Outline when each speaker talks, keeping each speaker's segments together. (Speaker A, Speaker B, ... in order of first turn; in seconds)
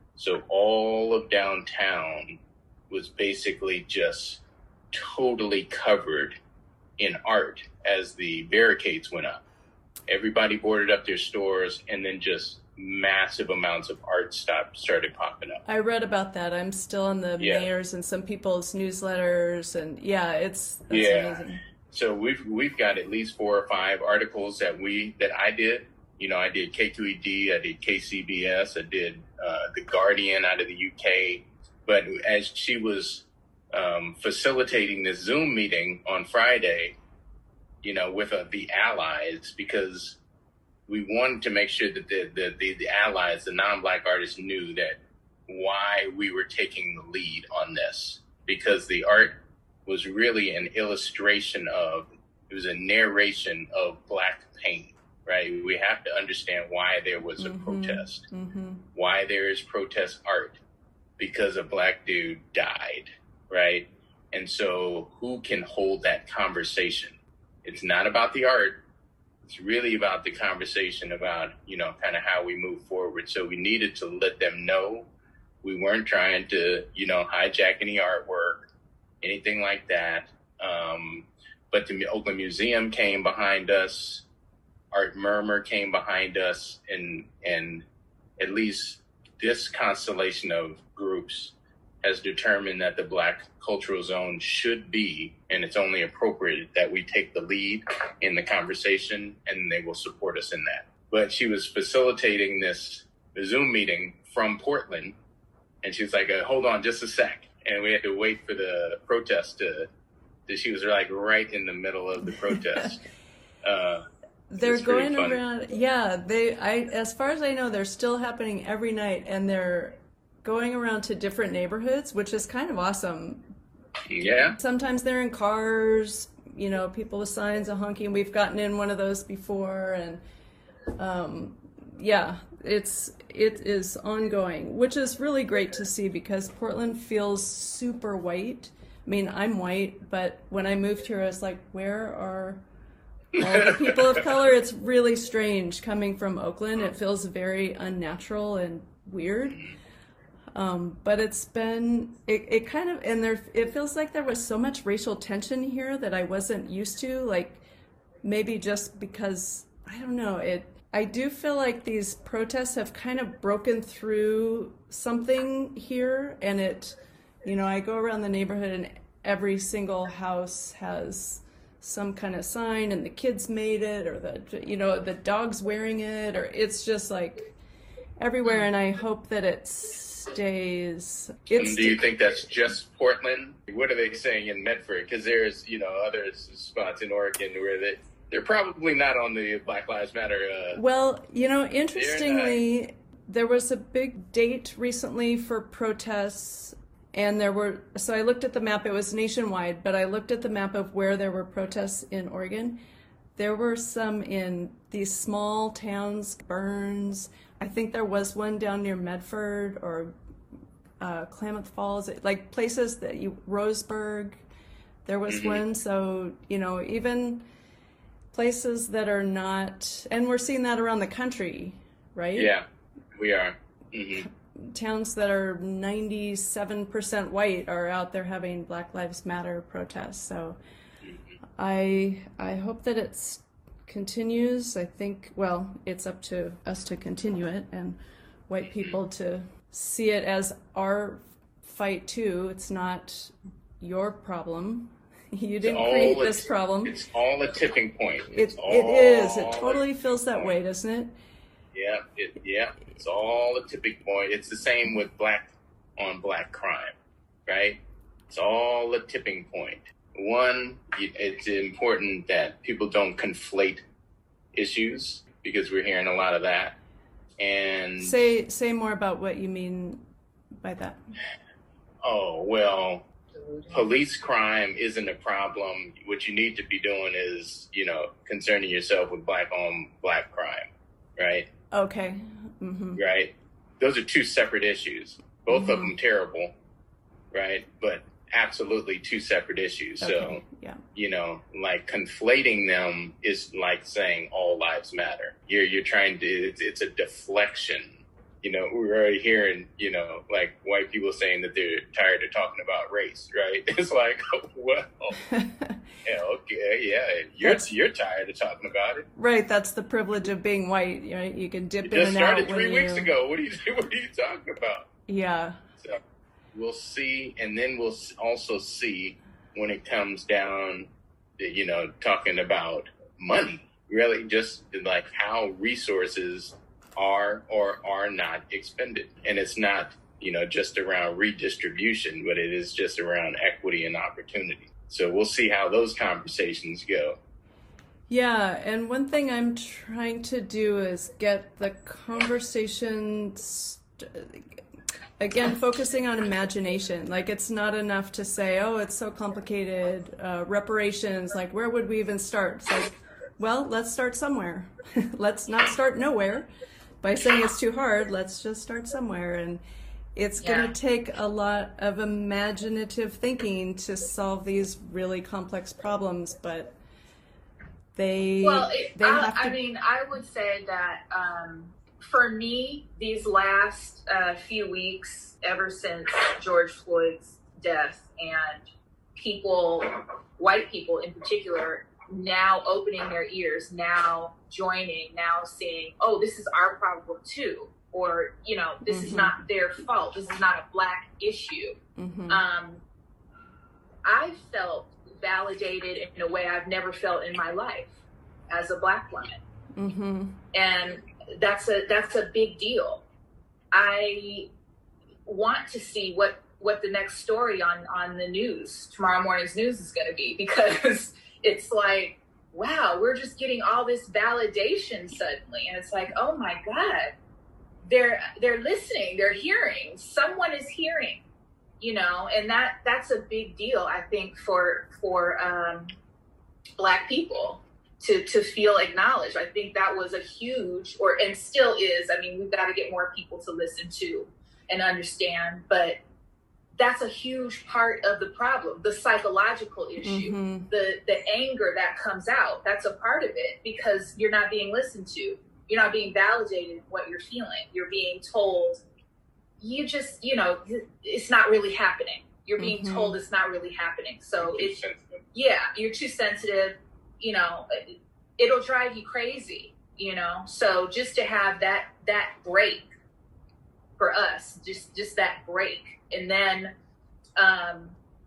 Speaker A: 0.1-6.4, 7.0-9.4, 10.1-15.6, 17.4-17.7, 20.9-37.0, 37.8-40.2, 40.9-58.2, 58.9-60.6, 61.2-68.8, 69.4-75.1, 75.6-78.7, 79.2-84.2, 84.9-87.8, 88.4-105.2, 105.8-109.9, 110.5-113.0, 113.6-114.1, 114.6-115.4, 124.1-124.6, 143.6-143.9, 181.6-190.8, 191.9-192.6, 215.3-215.6, 222.3-224.3, 231.0-231.3, 245.6-249.8, 251.7-256.9, 257.5-263.8, 264.5-266.8, 267.4-268.3, 272.0-273.1, 273.7-281.5, 282.9-286.5, 287.3-290.4, 290.9-305.2, 306.0-309.1, 311.8-314.9, 316.5-337.2, 454.4-455.2
Speaker B: 15.7-21.6, 57.4-58.8, 114.5-123.4, 124.6-130.2, 130.9-142.6, 143.3-149.7, 150.5-157.6, 158.2-177.5, 178.2-182.1, 190.7-202.8, 203.4-210.1, 211.0-214.4, 215.1-217.4, 218.3-222.5, 224.2-230.6, 231.6-247.0, 248.3-251.1, 268.0-270.0, 270.6-271.0, 281.7-283.0, 285.5-285.9, 290.0-290.8, 305.3-305.8, 307.4-307.7, 309.1-313.1, 315.1-315.6, 338.1-344.6, 345.2-356.5, 357.0-359.6, 360.1-366.7, 367.9-369.6, 388.9-389.4, 391.9-392.4, 399.7-400.4, 440.0-440.7, 452.6-453.2
Speaker C: 273.4-273.8, 360.4-360.7, 368.4-391.8, 392.3-392.8, 394.0-397.9, 398.5-399.4, 400.5-403.0, 403.7-404.5, 405.2-417.1, 417.8-421.2, 421.8-425.9, 426.8-436.0, 436.8-448.8, 449.6-454.8, 455.3-462.9, 464.0-466.7, 467.4-467.9